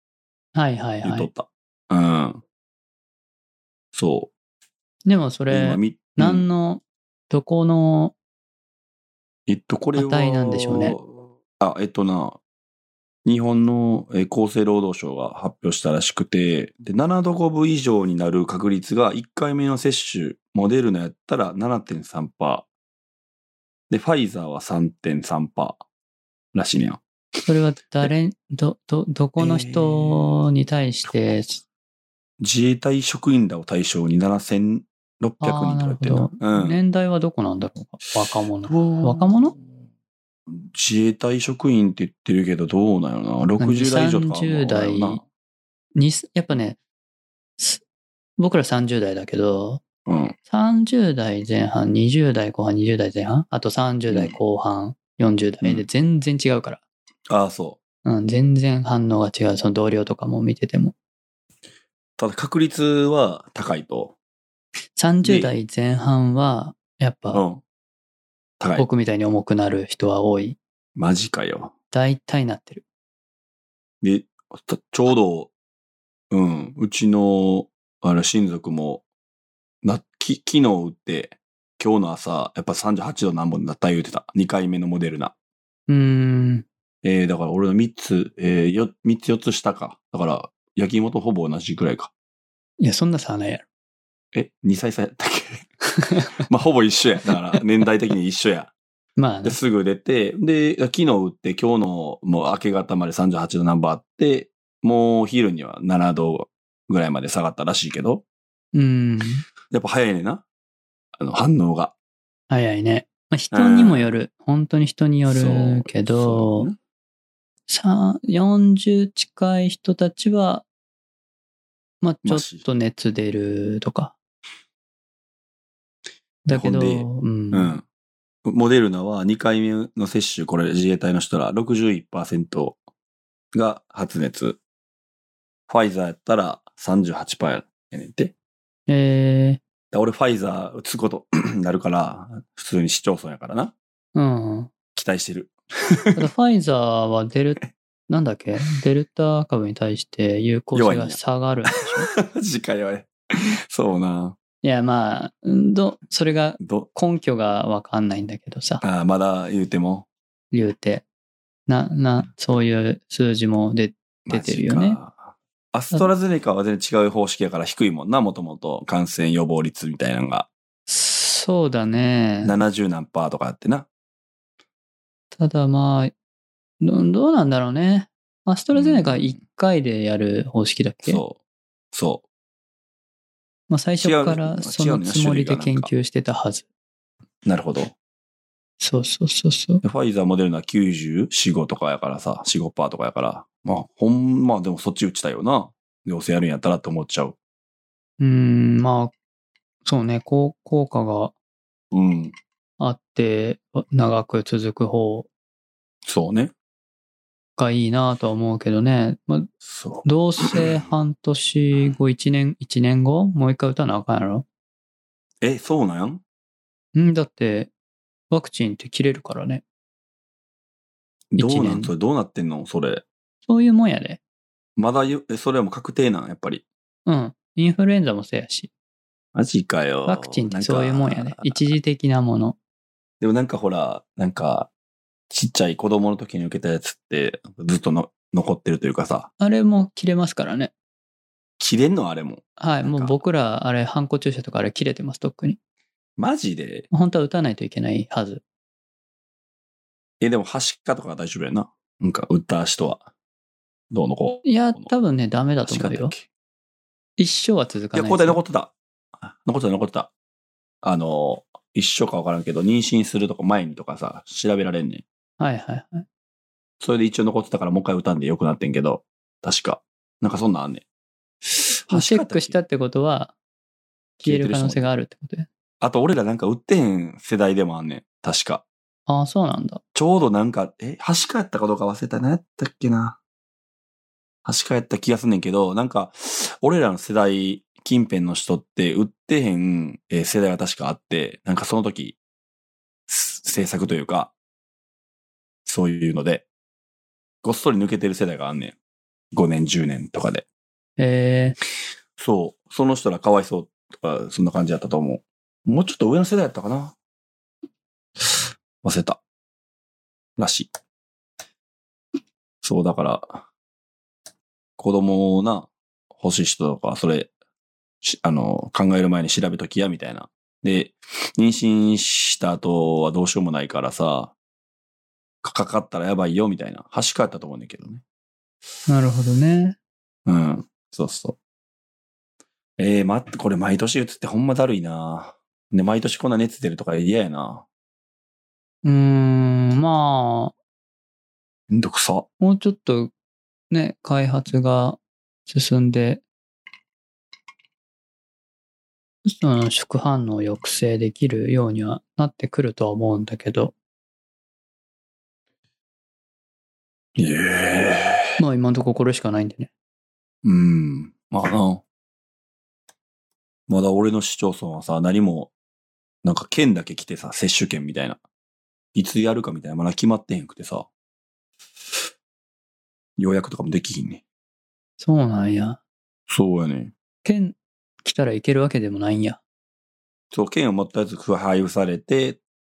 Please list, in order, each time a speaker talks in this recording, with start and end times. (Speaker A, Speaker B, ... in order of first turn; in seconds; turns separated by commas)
Speaker A: 0.6-1.3, Speaker B: 1.0-2.4, Speaker B: 3.9-4.3, Speaker A: 5.1-8.2, Speaker B: 5.5-6.5, Speaker B: 9.5-12.4, Speaker A: 10.0-11.0, Speaker B: 13.2-22.7, Speaker B: 23.9-25.8, Speaker B: 26.5-27.0, Speaker A: 27.5-31.6, Speaker B: 29.4-30.5, Speaker B: 32.4-36.8, Speaker A: 35.4-39.5, Speaker B: 38.6-39.6, Speaker B: 40.5-45.2, Speaker A: 43.6-45.2, Speaker A: 46.0-46.8, Speaker A: 48.4-49.8, Speaker B: 50.1-50.4, Speaker A: 50.5-56.8, Speaker B: 54.1-54.4, Speaker B: 57.3-57.8, Speaker A: 58.0-60.9, Speaker B: 62.2-64.2, Speaker A: 65.0-67.4, Speaker B: 65.2-65.5, Speaker B: 67.3-67.6, Speaker B: 68.6-68.9, Speaker A: 68.8-70.6, Speaker B: 71.0-71.7, Speaker A: 71.9-72.8, Speaker B: 74.0-75.5, Speaker B: 76.3-79.0, Speaker B: 79.8-85.3, Speaker A: 85.9-86.7, Speaker B: 87.0-92.1, Speaker A: 92.8-93.6, Speaker B: 94.3-95.7, Speaker A: 96.1-96.4, Speaker B: 96.4-98.7, Speaker A: 99.2-99.6, Speaker B: 99.4-108.2, Speaker A: 108.7-109.5, Speaker B: 109.7-110.5, Speaker B: 111.2-111.9, Speaker A: 112.5-116.7, Speaker B: 113.5-114.1, Speaker B: 115.3-116.8, Speaker A: 117.7-120.7, Speaker A: 122.0-124.1, Speaker B: 122.2-122.6, Speaker A: 126.5-127.7, Speaker B: 126.5-127.8, Speaker B: 128.4-132.8, Speaker B: 133.5-134.6, Speaker B: 135.7-138.3, Speaker A: 138.9-139.6, Speaker B: 139.9-143.7, Speaker A: 144.2-144.7, Speaker B: 144.9-146.3, Speaker A: 146.2-152.1, Speaker B: 150.7-151.2, Speaker B: 152.1-154.4, Speaker A: 154.6-158.8, Speaker B: 156.6-156.9, Speaker B: 158.8-160.1, Speaker A: 160.5-161.1, Speaker A: 161.7-165.0, Speaker B: 164.3-170.5, Speaker A: 170.9-172.6, Speaker B: 172.4-173.9, Speaker A: 175.3-176.1, Speaker A: 176.8-181.2, Speaker B: 178.7-179.4, Speaker B: 181.0-181.4, Speaker B: 181.9-182.2, Speaker A: 183.7-186.7, Speaker B: 184.0-185.9, Speaker B: 187.4-187.9, Speaker A: 188.8-189.8, Speaker B: 189.8-197.4, Speaker A: 198.2-199.1, Speaker A: 199.8-201.3, Speaker B: 201.9-202.3, Speaker A: 202.8-205.3, Speaker B: 206.1-206.5, Speaker A: 207.6-209.5, Speaker B: 209.6-210.7, Speaker A: 210.1-214.5, Speaker B: 215.4-216.2, Speaker A: 216.9-217.7, Speaker A: 218.3-219.6, Speaker B: 221.3-223.0, Speaker A: 221.4-221.9, Speaker A: 223.5-224.2, Speaker B: 224.8-226.6, Speaker A: 227.1-228.7, Speaker B: 229.3-231.7, Speaker A: 230.1-232.6, Speaker B: 233.2-234.7, Speaker B: 235.3-239.3, Speaker A: 239.4-240.7, Speaker B: 241.6-243.2, Speaker A: 242.6-245.6, Speaker B: 246.2-246.9, Speaker A: 246.9-248.4, Speaker B: 250.2-253.1, Speaker B: 253.9-254.9, Speaker A: 254.4-256.1, Speaker B: 255.6-256.2, Speaker A: 257.2-258.4, Speaker B: 257.9-260.1, Speaker B: 260.8-265.0, Speaker A: 265.4-266.1, Speaker B: 266.8-270.8, Speaker B: 271.4-272.6, Speaker A: 271.9-273.3, Speaker B: 274.2-274.9, Speaker A: 274.2-275.5, Speaker B: 275.8-278.6, Speaker A: 279.1-279.8, Speaker B: 279.9-283.2, Speaker B: 284.4-292.2, Speaker B: 293.1-294.3, Speaker B: 295.6-296.5, Speaker B: 297.4-298.8, Speaker B: 299.3-300.4, Speaker A: 301.0-301.6, Speaker B: 302.2-306.9, Speaker B: 308.2-309.2, Speaker B: 310.4-310.7, Speaker B: 312.6-313.5, Speaker B: 314.8-317.3, Speaker B: 318.0-324.3, Speaker B: 325.4-328.0, Speaker A: 328.9-329.8, Speaker B: 330.3-331.4, Speaker B: 332.8-337.6, Speaker A: 338.8-340.5, Speaker B: 341.7-342.3, Speaker A: 342.4-343.1, Speaker A: 343.7-346.2, Speaker A: 349.2-353.7, Speaker B: 357.2-358.4, Speaker A: 358.4-359.7, Speaker B: 360.4-361.8, Speaker B: 363.7-365.5, Speaker B: 366.2-368.2, Speaker B: 368.9-370.9, Speaker B: 373.2-374.2, Speaker A: 375.0-375.8, Speaker B: 376.3-376.9, Speaker A: 377.2-379.4, Speaker B: 380.3-382.4